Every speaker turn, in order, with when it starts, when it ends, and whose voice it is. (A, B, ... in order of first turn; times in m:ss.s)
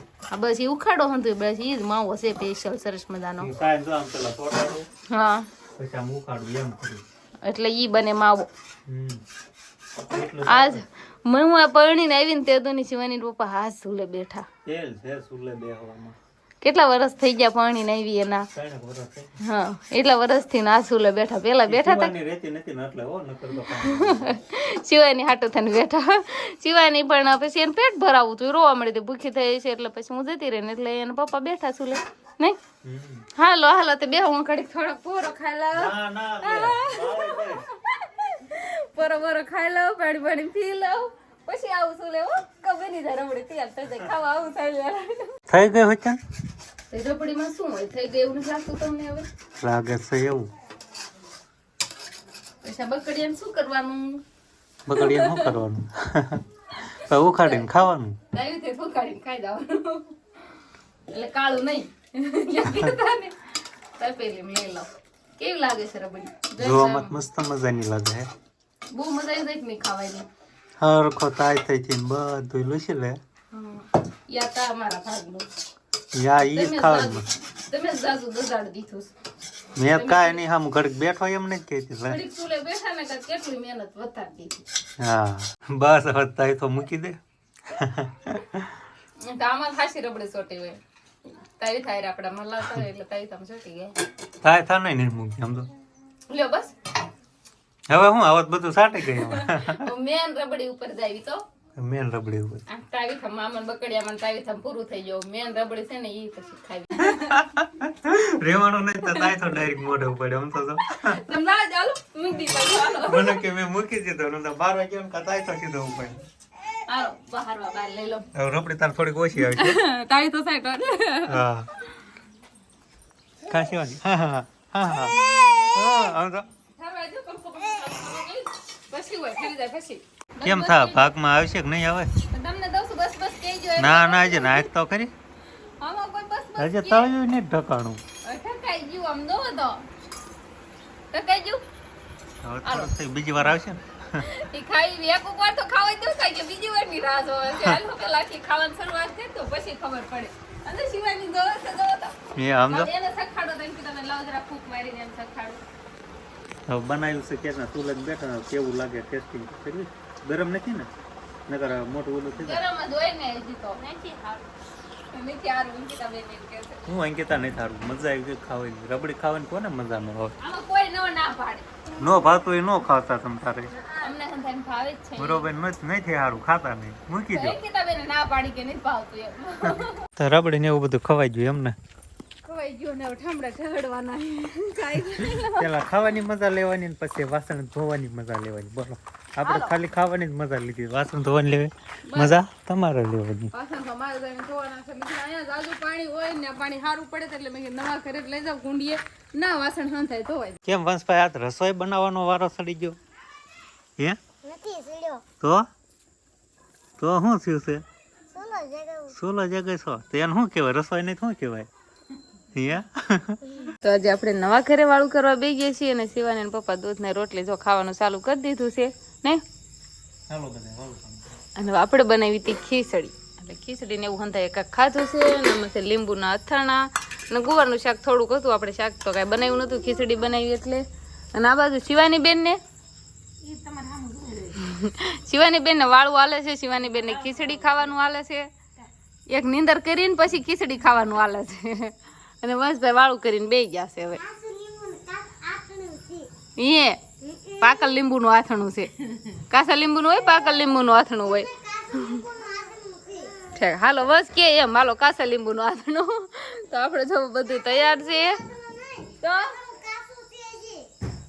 0:00.3-0:03.5 A
0:03.4-0:04.9 B
0:05.1-0:05.5 A
0:05.8-0:07.0 B
0:07.4-0:08.5 A
0:08.8-0:09.2 B
0:10.0-0:10.8 B
0:10.4-0:14.4 A
0:14.6-0:16.2 B
0:16.6-0:18.5 A
0:18.5-0:19.3 B
0:19.4-0:22.1 A
0:21.6-0:24.3 B
0:23.7-0:32.6 A
0:32.8-0:33.3 B
0:33.3-0:45.3 A
0:35.7-0:37.6 B
0:45.5-0:46.2 B
0:46.9-0:49.2 A
0:49.6-0:50.5 B
0:52.6-0:54.2 A
0:54.8-0:58.2 B
0:54.9-0:55.5 A
0:56.8-0:57.7 A
0:58.3-1:00.2 A
1:01.1-1:07.2 A
1:02.7-1:02.9 B
1:06.6-1:08.3 B
1:08.9-1:10.2 A
1:10.8-1:13.2 B
1:13.5-1:15.5 A
1:16.1-1:17.3 B
1:16.4-1:19.1 A
1:19.8-1:22.2 B
1:19.9-1:20.4 A
1:22.0-1:24.6 A
1:25.0-1:28.8 B
1:29.2-1:30.8 A
1:31.4-1:34.0 A
1:34.4-1:35.7 B
1:36.3-1:36.7 A
1:37.9-1:39.9 B
1:39.1-1:41.4 A
1:41.8-1:42.6 B
1:42.7-1:47.4 A
1:47.0-1:51.2 B
1:49.0-1:49.3 A
1:50.9-1:53.4 A
1:53.0-1:56.2 B
1:56.9-1:58.2 A
1:58.3-1:59.8 B
1:59.4-2:01.4 A
2:01.3-2:01.7 B
2:03.4-2:06.4 B
2:06.8-2:11.1 A
2:10.4-2:12.1 B
2:12.3-2:14.7 A
2:13.8-2:15.1 B
2:15.8-2:17.1 A
2:16.6-2:18.0 B
2:18.2-2:19.8 A
2:21.1-2:21.6 A
2:22.4-2:24.3 B
2:22.6-2:22.9 A
2:24.2-2:32.2 A
2:32.4-2:32.9 B
2:32.7-2:35.6 A
2:36.7-2:40.9 B
2:41.5-2:42.6 B
2:42.4-2:44.4 A
2:45.1-2:46.8 A
2:46.9-2:50.4 B
2:50.4-2:51.7 A
2:52.0-2:53.7 B
2:53.9-2:55.5 A
2:55.2-2:57.6 B
2:57.3-3:00.0 A
2:59.6-3:01.8 B
3:02.4-3:05.7 A
3:05.2-3:13.5 B
3:09.4-3:09.7 A
3:12.1-3:12.3 A
3:13.5-3:20.6 A
3:20.6-3:23.0 B
3:24.4-3:25.2 C
3:27.0-3:27.8 B
3:28.4-3:29.1 C
3:29.1-3:31.7 B
3:32.5-3:33.7 B
3:33.8-3:39.4 A
3:40.3-3:41.4 B
3:41.6-3:52.6 A
3:53.4-3:58.5 A
3:59.3-4:04.2 A
4:04.4-4:06.3 C
4:06.6-4:12.4 A
4:12.4-4:13.3 C
4:13.4-4:18.4 A
4:19.1-4:19.9 A
4:19.9-4:20.9 C